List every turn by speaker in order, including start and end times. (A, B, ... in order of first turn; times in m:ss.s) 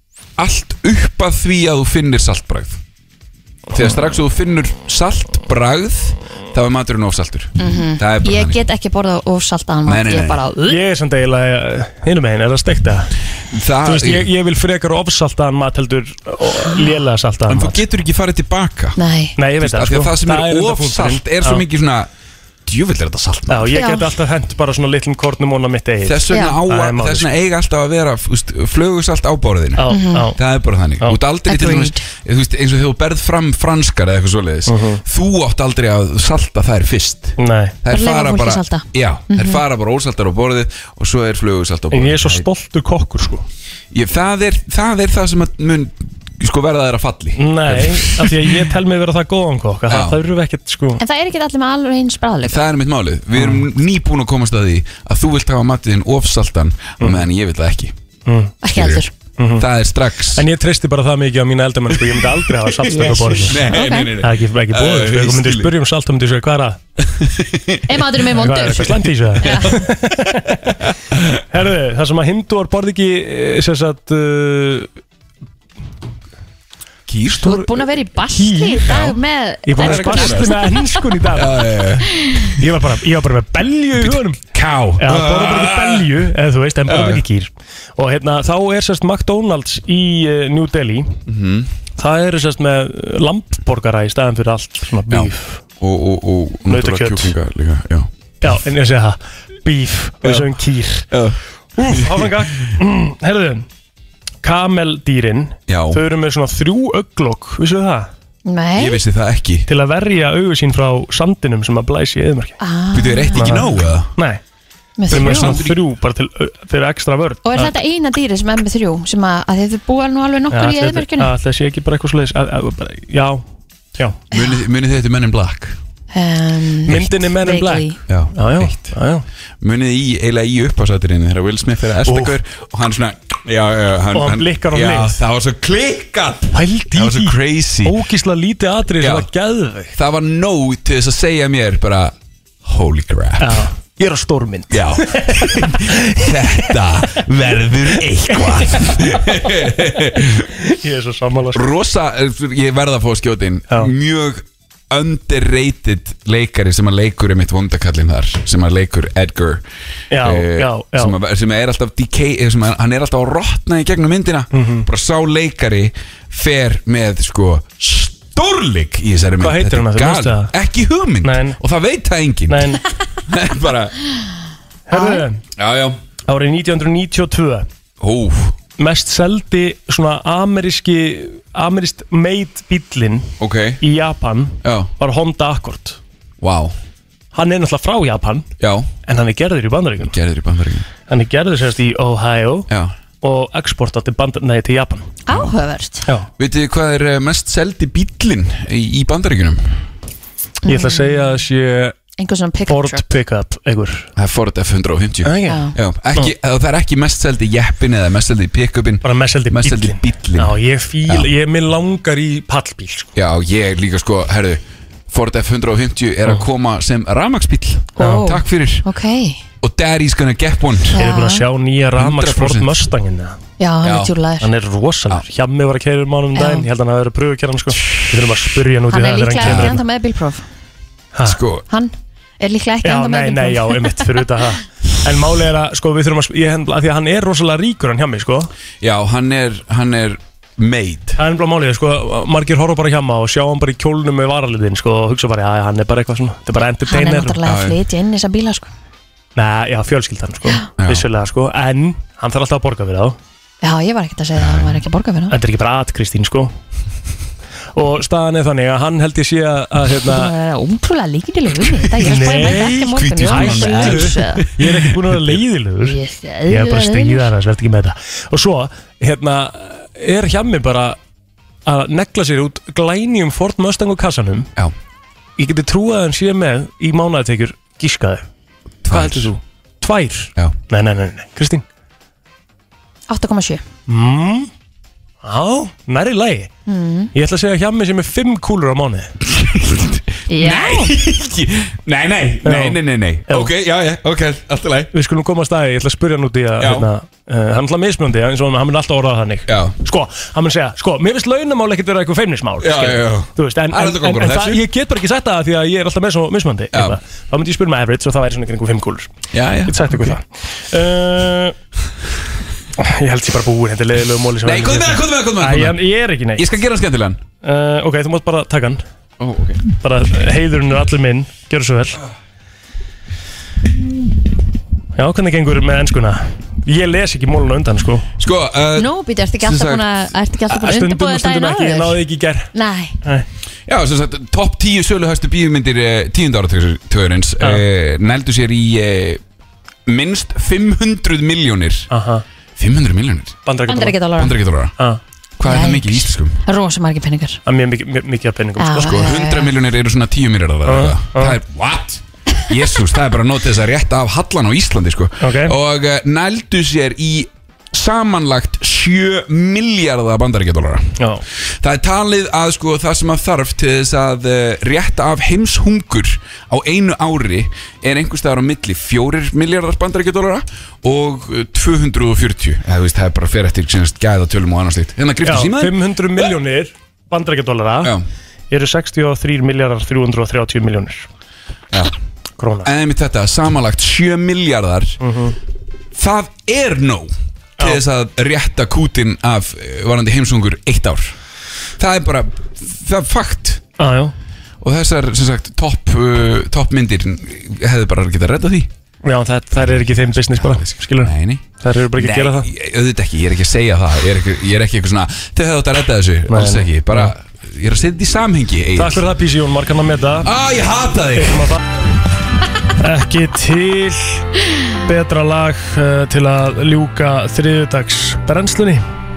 0:00.4-0:02.8 A
0:03.7-0:08.6 A
0:07.6-0:10.8 B
0:09.8-0:10.4 A
0:10.6-0:13.1 C
0:13.5-0:14.3 A
0:13.8-0:17.8 C
0:17.5-0:19.0 A
0:19.0-0:19.4 B
0:19.4-0:21.6 C
0:19.5-0:22.1 A
0:22.6-0:23.8 A
0:23.5-0:27.3 C
0:23.7-0:24.1 B
0:26.0-0:42.5 A
0:26.3-0:26.6 B
0:29.8-0:30.4 C
0:29.9-0:30.3 B
0:31.4-0:32.1 B
0:34.7-0:35.0 C
0:37.4-0:37.8 C
0:37.9-0:39.6 B
0:41.9-0:43.4 C
0:43.9-0:48.7 A
0:47.4-0:51.0 C
0:49.9-0:50.2 A
0:51.0-0:52.6 B
0:52.4-0:57.9 A
0:53.3-0:53.6 C
0:58.2-0:58.6 C
0:58.6-0:59.1 B
0:58.7-1:00.5 A
0:59.4-0:59.6 C
1:00.4-1:06.8 C
1:01.9-1:05.8 A
1:03.5-1:04.1 B
1:07.2-1:08.0 A
1:07.9-1:09.8 B
1:08.3-1:10.8 C
1:11.1-1:11.4 A
1:11.5-1:14.9 C
1:17.1-1:17.6 A
1:17.4-1:21.0 B
1:17.4-1:21.6 C
1:19.8-1:22.6 A
1:22.2-1:22.5 B
1:22.6-1:24.4 C
1:24.0-1:26.3 A
1:25.0-1:31.2 C
1:26.8-1:27.2 A
1:31.3-1:31.7 A
1:32.0-1:35.6 C
1:35.1-1:38.1 A
1:36.7-1:37.3 C
1:38.4-1:41.1 C
1:40.2-1:40.6 A
1:41.1-1:42.7 A
1:41.8-1:43.7 C
1:44.4-1:48.1 C
1:45.7-1:46.0 A
1:48.4-1:49.0 B
1:48.8-1:49.7 A
1:49.7-1:52.6 C
1:52.6-1:53.8 B
1:52.9-1:54.1 A
1:53.4-1:54.4 C
1:55.0-1:55.6 B
1:55.1-1:55.8 A
1:55.1-1:57.7 C
1:57.4-2:01.3 B
2:00.5-2:04.2 C
2:04.3-2:05.8 A
2:06.1-2:08.0 B
2:06.9-2:09.2 C
2:08.1-2:09.0 A
2:09.6-2:18.0 A
2:12.0-2:12.3 C
2:14.1-2:15.2 C
2:16.5-2:19.9 C
2:19.0-2:19.3 A
2:19.9-2:22.1 A
2:22.6-2:23.7 A
2:23.4-2:26.9 C
2:24.7-2:30.5 A
2:28.3-2:29.0 C
2:30.6-2:31.6 C
2:31.5-2:39.6 A
2:40.1-2:41.1 C
2:40.1-2:54.0 A
2:44.5-2:44.8 C
2:49.4-2:50.5 C
2:51.2-2:51.6 C
2:52.5-2:52.8 C
2:54.9-2:55.4 C
2:54.9-2:55.2 B
2:55.6-2:56.0 A
2:56.3-2:57.7 C
2:58.0-2:58.6 A
2:58.8-3:06.0 C
3:03.4-3:03.8 A
3:04.6-3:04.9 A
3:06.4-3:06.7 A
3:07.3-3:08.5 C
3:08.6-3:08.9 A
3:09.0-3:10.1 C
3:10.0-3:10.9 A
3:11.1-3:12.7 C
3:12.7-3:13.0 A
3:13.2-3:15.2 C
3:15.2-3:16.1 B
3:15.3-3:15.5 A
3:16.4-3:19.8 A
3:20.6-3:21.4 B
3:20.6-3:22.0 C
3:22.2-3:23.1 B
3:22.7-3:24.1 C
3:24.2-3:31.3 A
3:25.2-3:26.3 C
3:25.4-3:25.8 B
3:29.0-3:33.1 C
3:33.1-3:38.9 A
3:37.9-3:39.4 B
3:38.0-3:38.3 C
3:39.6-3:41.0 A
3:40.9-3:41.4 B
3:41.0-3:43.4 C
3:41.9-3:42.9 A
3:43.6-3:44.5 B
3:43.8-3:44.2 A
3:44.4-3:49.8 C
3:46.4-3:46.7 B
3:48.9-3:50.4 B
3:49.4-3:49.8 A
3:51.2-3:51.6 A
3:51.7-3:54.4 B
3:52.8-3:58.5 C
3:58.8-4:01.2 A
4:01.2-4:07.4 C
4:06.8-4:08.7 B
4:07.4-4:07.8 A
4:09.4-4:13.2 C
4:10.8-4:11.1 A
4:13.6-4:15.4 B
4:14.4-4:14.8 A
4:15.3-4:16.5 C
4:17.7-4:20.3 C
4:20.0-4:24.5 B
4:21.6-4:25.4 A
4:22.0-4:31.0 C
4:25.8-4:27.3 B
4:31.6-4:34.5 C
4:35.4-4:38.2 C
4:38.8-4:39.3 A
4:38.9-4:41.6 C
4:43.1-4:43.6 B
4:43.9-4:44.5 C
4:45.2-4:46.5 C
4:46.7-4:47.1 B
4:47.1-4:49.1 C
4:49.2-4:54.9 A
4:50.3-4:50.9 B
4:52.4-4:53.5 C
4:54.9-5:11.6 C
4:56.6-4:56.9 A
4:59.5-4:59.8 A
5:02.6-5:04.6 A
5:06.7-5:07.0 A
5:09.3-5:10.2 A
5:12.8-5:16.4 C
5:14.4-5:17.2 A
5:17.4-5:18.8 C
5:19.2-5:19.6 A
5:19.7-5:22.0 C
5:25.0-5:28.1 C
5:28.2-5:30.1 A
5:28.7-5:32.0 B
5:30.5-5:32.5 C
5:32.5-5:33.0 B
5:33.7-5:39.2 A
5:39.9-5:41.9 A
5:41.9-5:42.2 C
5:42.6-5:43.4 A
5:43.4-5:44.0 C
5:43.6-5:44.4 B
5:44.1-5:44.7 A
5:45.4-5:46.4 A
5:45.4-5:47.4 B
5:47.4-5:48.9 C
5:48.6-5:49.5 B
5:48.7-6:01.0 A
5:50.6-5:51.4 C
5:55.2-5:55.5 C
6:01.6-6:16.3 A
6:15.2-6:17.9 C
6:18.5-6:21.1 C
6:22.4-6:22.7 C
6:22.6-6:25.0 A
6:25.0-6:25.4 C
6:25.9-6:31.2 A
6:31.8-6:33.6 A
6:33.8-6:34.1 C
6:34.6-6:38.7 A
6:39.0-6:42.5 C
6:39.5-6:49.1 A
6:46.3-6:47.1 C
6:48.8-6:50.3 C
6:50.2-6:51.5 A
6:51.2-6:51.6 C
6:52.8-6:54.3 C
6:54.8-6:58.8 C